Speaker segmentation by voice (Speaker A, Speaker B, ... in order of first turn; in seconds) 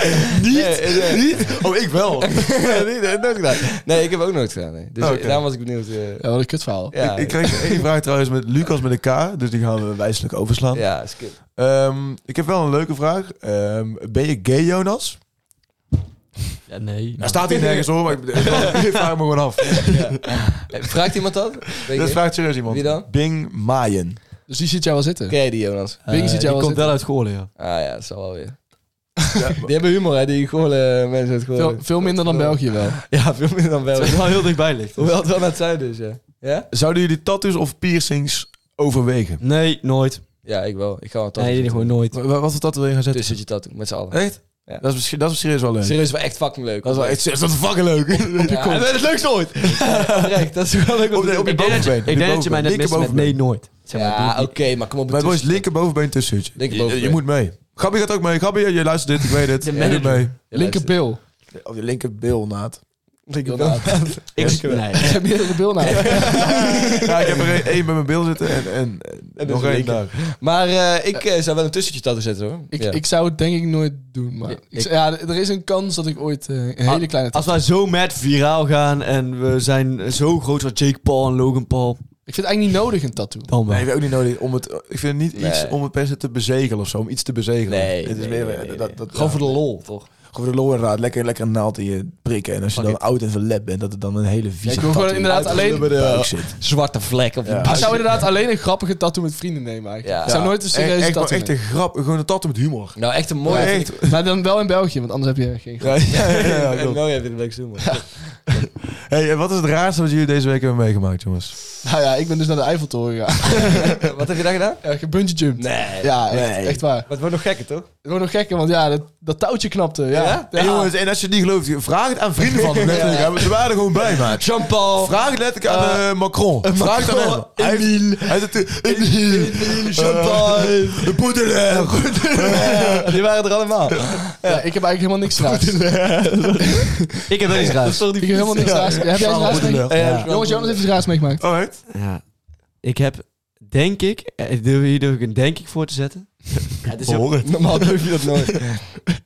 Speaker A: 0.3-2.8, 5.0-5.5, 6.9-15.2, 17.2-20.7, 21.9-24.2, 29.4-29.7, 36.7-39.4, 42.1-43.5, 44.1-46.2, 46.8-48.8, 49.7-50.5, 51.1-53.4, 55.1-60.4, 61.5-62.8, 64.4-64.8, 66.0-70.2, 83.7-96.6, 97.4-98.0, 100.3-104.2, 105.8-107.0, 108.6-111.6, 116.3-116.9, 120.5-133.2, 138.5-140.3, 141.4-141.8, 146.9-148.2
Speaker B: 0.5-1.5, 2.2-7.5, 10.7-11.4, 18.5-18.7, 19.9-23.1, 25.3-26.0, 27.6-28.6, 29.6-36.7, 40.4-42.0, 43.1-44.8, 45.8-47.2, 48.5-51.9, 53.9-55.7, 56.6-57.2, 59.8-60.9, 63.3-65.3, 65.8-67.7, 69.4-73.0, 85.4-85.8, 87.7-90.1, 95.2-98.2, 100.0-100.5, 103.0-104.0, 106.1-108.7, 113.6-114.8, 115.6-116.2, 117.1-117.9, 120.1-120.9, 122.5-126.0, 126.6-131.2, 131.7-134.7, 135.3-140.8, 147.4-148.8
Speaker C: 6.2-7.6, 24.5-25.4, 26.1-26.9, 31.6-33.0, 48.4-48.9, 60.5-61.2, 63.5-64.2, 64.9-67.0, 72.7-77.6, 82.3-83.5, 94.6-95.9, 97.6-101.5, 103.5-106.0, 111.8-114.0, 114.8-117.1, 118.0-120.8, 134.4-135.8, 138.2-141.4
Speaker D: 16.7-17.3, 18.5-18.9, 26.1-27.5, 34.0-35.2, 39.4-40.3, 41.4-42.2, 51.5-54.5, 59.6-60.3, 64.3-65.3, 74.5-74.9, 76.9-82.0, 83.5-83.9, 92.8-93.0, 137.3-138.2, 141.9-142.2, 142.8-147.4